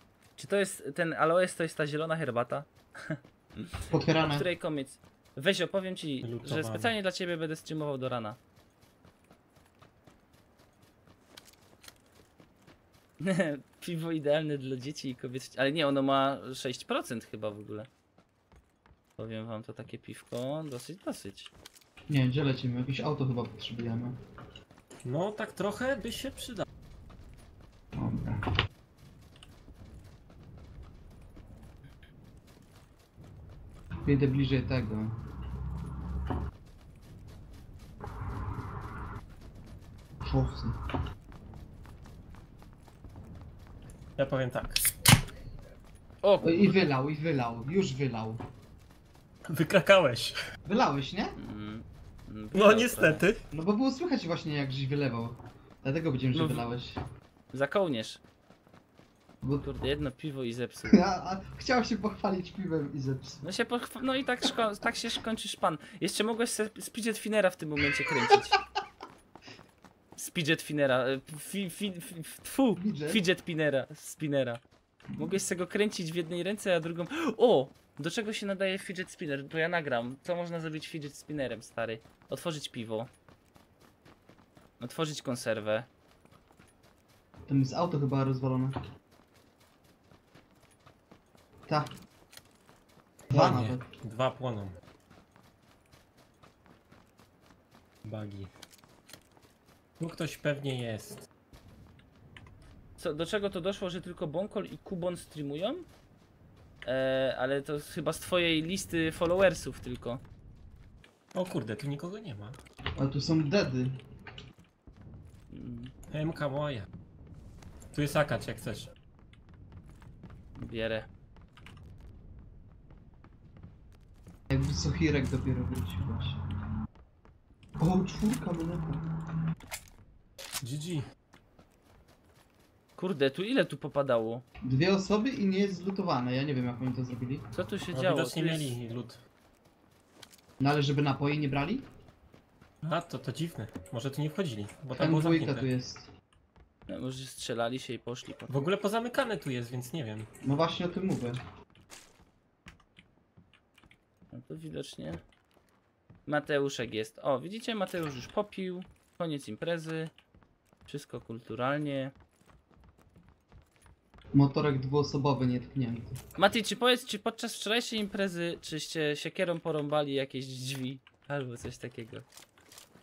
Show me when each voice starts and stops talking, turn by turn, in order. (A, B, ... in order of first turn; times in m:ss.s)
0:00.4-0:08.4 A
0:03.9-0:04.5 B
0:06.2-0:06.9 C
0:13.2-0:17.9 A
0:19.2-0:21.5 A
0:22.1-0:24.2 B
0:25.0-0:26.6 C
0:28.0-0:28.4 B
0:34.0-0:35.1 B
0:40.2-0:40.7 B
0:44.2-0:44.8 C
0:46.2-0:46.8 A
0:46.4-0:48.4 B
0:49.5-0:50.4 C
0:50.6-0:51.4 B
0:51.4-0:53.2 A
0:52.5-0:53.4 C
0:53.5-0:57.0 B
0:56.3-0:56.6 A
0:57.5-0:58.2 A
0:59.6-1:01.0 A
1:00.9-1:03.4 B
1:03.4-1:08.6 A
1:10.2-1:14.6 A
1:12.8-1:13.2 B
1:15.2-1:23.1 A
1:24.8-1:25.9 A
1:27.4-1:28.7 B
1:33.3-1:34.8 C
1:33.3-1:33.8 B
1:38.0-1:38.5 C
1:40.0-1:41.2 C
1:43.0-1:45.9 A
1:46.8-1:50.2 A
1:51.3-1:52.6 C
1:53.0-1:54.0 B
1:55.5-1:55.9 A
1:56.1-1:56.9 C
1:57.9-1:58.9 C
2:00.6-2:01.1 A
2:04.5-2:06.4 B
2:07.8-2:09.0 B
2:10.6-2:11.0 C
2:13.0-2:14.4 A
2:14.6-2:17.5 B
2:17.5-2:18.8 A
2:17.9-2:19.2 C
2:20.6-2:21.8 B
2:22.8-2:25.7 C
2:25.0-2:26.1 B
2:26.9-2:28.7 A
2:28.5-2:30.3 C
2:30.4-2:31.4 B
2:34.3-2:35.2 A
2:36.3-2:40.1 A
2:40.9-2:42.1 A
2:44.3-2:46.2 B
2:46.4-2:52.2 A